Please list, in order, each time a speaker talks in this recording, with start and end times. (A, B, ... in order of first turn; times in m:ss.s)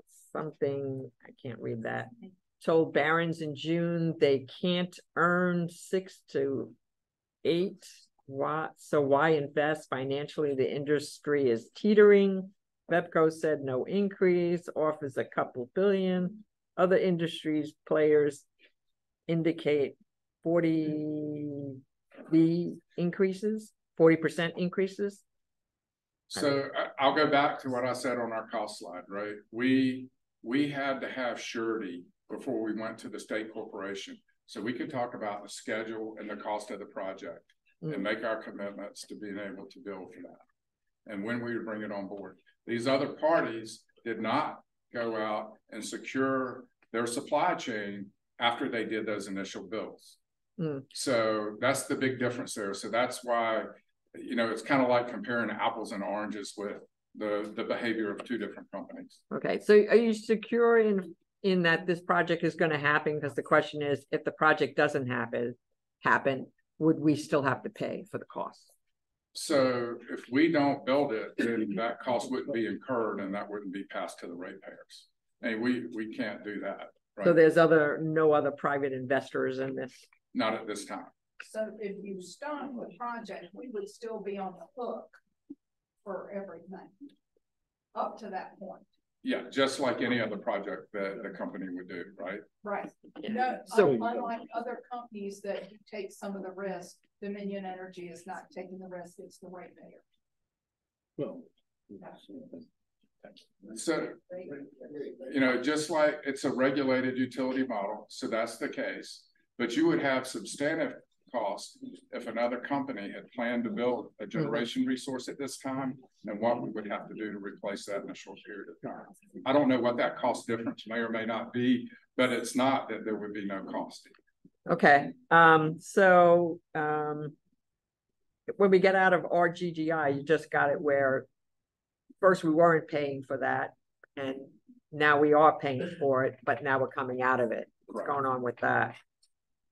0:00.3-0:06.7 A
0:07.4-0:18.4 A
0:19.3-0:25.2 A
0:26.3-0:40.4 B
0:41.0-0:50.2 B
0:50.6-0:50.8 A
0:50.9-0:59.2 B
0:59.3-1:08.7 A
1:09.3-1:17.4 B
1:17.2-1:20.0 A
1:20.3-1:21.1 B
1:21.4-1:25.2 C
1:26.0-1:26.9 C
1:27.9-1:28.8 C
1:29.2-1:32.4 B
1:32.6-1:40.0 C
1:33.2-1:33.5 A
1:33.7-1:34.3 D
1:41.2-1:42.6 D
1:43.7-1:44.2 B
1:45.2-2:04.1 B
2:04.7-2:07.3 A
2:08.5-2:11.3 A
2:12.2-2:19.0 A
2:17.9-2:18.2 B